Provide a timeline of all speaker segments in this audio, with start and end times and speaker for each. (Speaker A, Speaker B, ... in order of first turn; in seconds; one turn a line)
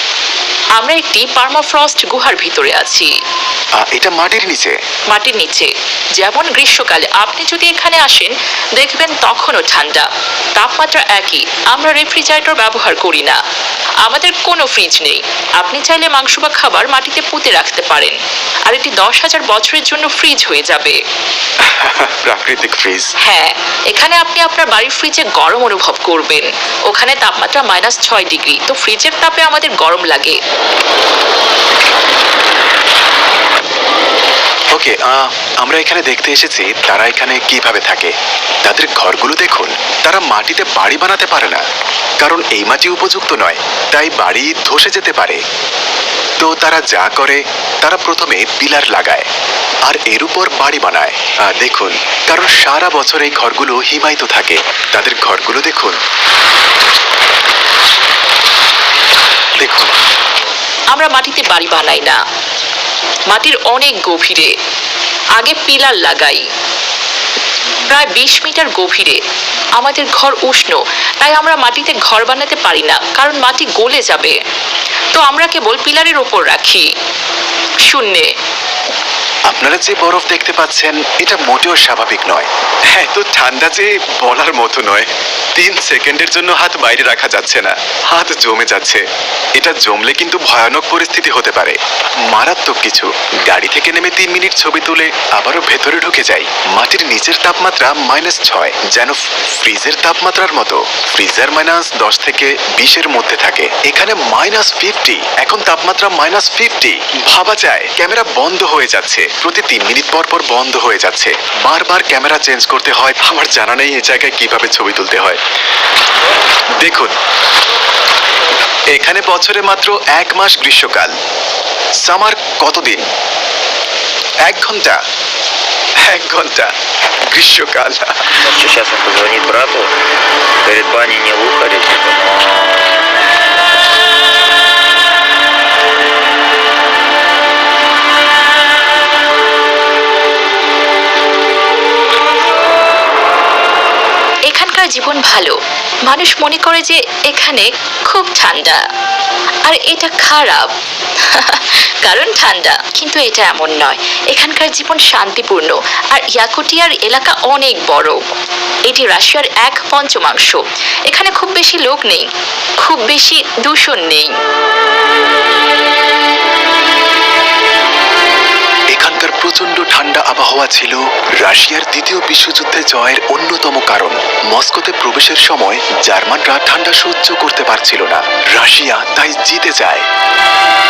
Speaker A: 0.8-3.1
Speaker B: 3.8-4.7
Speaker A: 5.1-13.4
Speaker A: 14.0-18.1
Speaker A: 18.7-21.0
Speaker B: 21.6-23.1
Speaker A: 23.2-30.4
Speaker B: 34.7-38.1
Speaker B: 38.6-41.6
Speaker B: 42.2-45.4
Speaker B: 46.4-49.3
Speaker B: 49.9-56.0
Speaker B: 59.6-60.0
Speaker A: 60.9-62.2
Speaker A: 63.3-64.5
Speaker A: 65.4-66.4
Speaker A: 67.9-69.2
Speaker A: 69.8-74.3
Speaker A: 75.1-76.8
Speaker A: 77.9-78.2
Speaker B: 79.5-89.0
Speaker B: 89.5-91.8
Speaker B: 92.3-115.4
Speaker B: 116.8-117.1
Speaker B: 118.9-121.1
Speaker B: 122.0-123.1
Speaker B: 124.4-125.0
Speaker B: 126.0-126.7
Speaker B: 127.3-128.3
Speaker C: 128.4-129.9
Speaker C: 130.6-133.0
Speaker A: 144.5-145.6
Speaker A: 146.1-148.8
Speaker A: 149.7-150.7
Speaker A: 151.2-158.2
Speaker A: 158.8-162.3
Speaker A: 162.8-164.3
Speaker B: 168.9-180.1